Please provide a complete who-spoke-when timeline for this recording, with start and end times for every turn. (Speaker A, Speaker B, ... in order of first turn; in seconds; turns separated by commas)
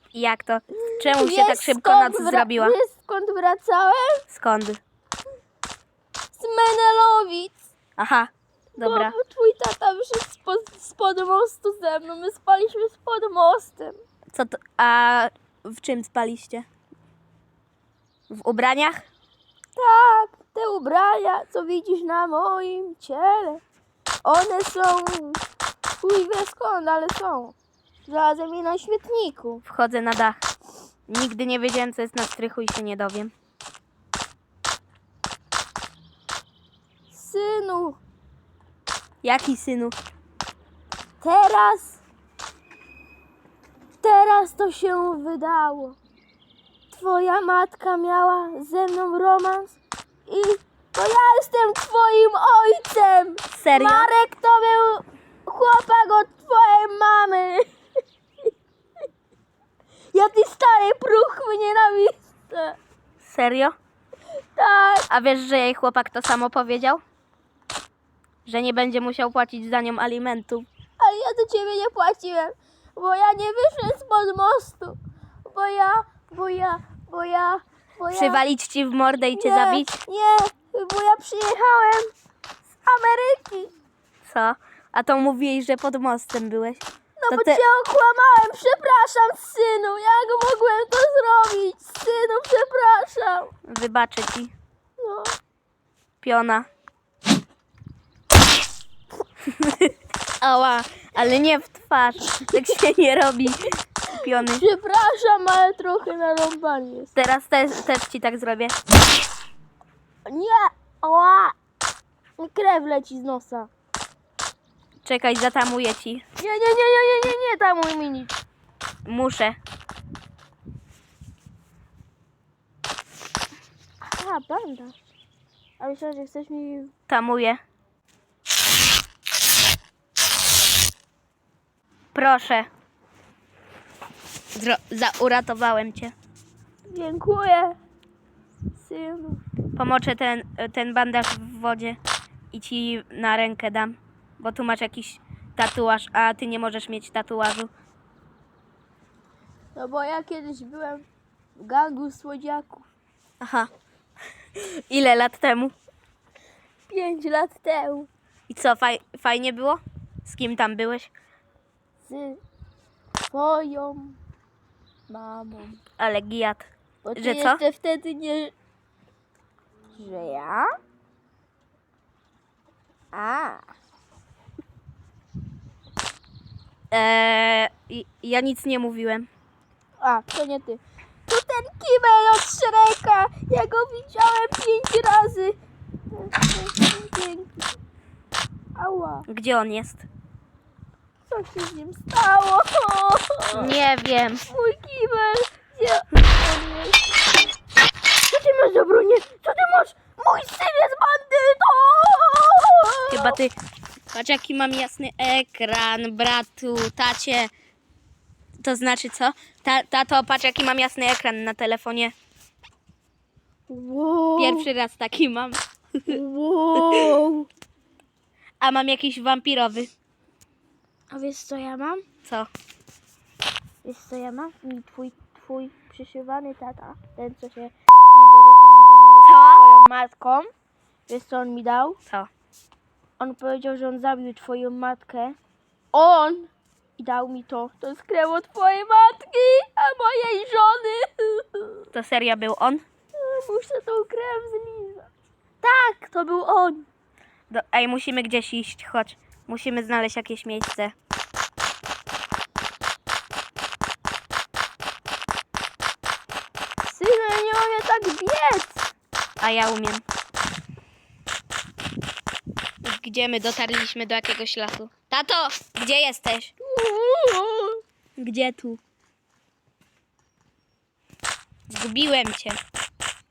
Speaker A: 0.1-2.8, Speaker B: 0.9-4.2, Speaker A: 4.3-4.8, Speaker B: 6.3-7.7, Speaker A: 8.0-9.1, Speaker B: 8.8-14.0, Speaker A: 14.3-16.7, Speaker A: 18.3-19.1, Speaker B: 19.8-23.6, Speaker B: 24.2-25.4, Speaker B: 26.0-27.5, Speaker B: 28.1-29.6, Speaker A: 29.6-30.4, Speaker A: 31.1-33.3, Speaker B: 37.1-38.0, Speaker A: 39.2-39.9, Speaker B: 41.2-42.0, Speaker B: 44.0-46.0, Speaker B: 46.9-49.8, Speaker B: 50.3-57.7, Speaker A: 53.5-54.1, Speaker B: 60.1-62.8, Speaker A: 63.2-63.8, Speaker B: 64.6-65.1, Speaker A: 65.1-67.0, Speaker A: 68.4-70.7, Speaker B: 71.0-78.4, Speaker A: 78.1-80.0, Speaker B: 79.3-82.1, Speaker B: 82.8-83.7, Speaker A: 84.2-87.6, Speaker B: 87.2-93.5, Speaker A: 93.7-94.5, Speaker B: 95.0-95.3, Speaker A: 96.2-96.7, Speaker A: 100.4-104.6, Speaker B: 104.3-107.1, Speaker A: 107.1-108.8, Speaker B: 110.2-111.5, Speaker B: 112.4-113.7, Speaker A: 115.0-116.2, Speaker B: 116.4-118.4, Speaker A: 119.0-119.6, Speaker B: 124.0-125.0, Speaker B: 125.8-126.9, Speaker A: 127.1-127.6, Speaker A: 132.1-132.7, Speaker A: 134.5-136.1, Speaker B: 136.9-137.8, Speaker B: 138.8-139.4, Speaker A: 139.8-142.0, Speaker A: 142.5-147.7, Speaker B: 149.8-151.1, Speaker B: 151.6-152.8, Speaker A: 153.4-153.7, Speaker A: 154.6-155.7, Speaker B: 156.9-158.1, Speaker A: 158.5-161.1, Speaker B: 162.0-162.4, Speaker B: 163.3-164.2, Speaker B: 165.1-165.8, Speaker A: 166.0-167.6, Speaker B: 167.0-168.5, Speaker B: 169.9-170.7, Speaker B: 173.1-173.7, Speaker A: 176.9-179.3, Speaker B: 180.0-185.6, Speaker B: 186.1-187.7, Speaker B: 188.8-189.3, Speaker A: 189.2-190.1, Speaker B: 191.3-193.8, Speaker A: 193.5-194.4, Speaker B: 194.5-197.1, Speaker B: 198.3-203.4, Speaker A: 203.1-203.5, Speaker A: 204.1-207.5, Speaker A: 208.6-212.1, Speaker B: 213.7-214.7, Speaker A: 214.4-216.2, Speaker B: 216.1-217.5, Speaker A: 218.6-219.9, Speaker B: 221.1-222.0, Speaker B: 223.8-230.5, Speaker A: 229.2-229.6, Speaker B: 231.1-232.0, Speaker B: 233.2-235.4, Speaker B: 235.9-241.9, Speaker A: 241.9-242.8, Speaker B: 243.2-245.1, Speaker B: 245.6-246.8, Speaker A: 247.5-250.9, Speaker B: 256.9-258.9, Speaker A: 259.4-260.0, Speaker A: 262.8-266.5, Speaker B: 266.6-267.8, Speaker A: 268.2-268.8, Speaker A: 271.7-272.6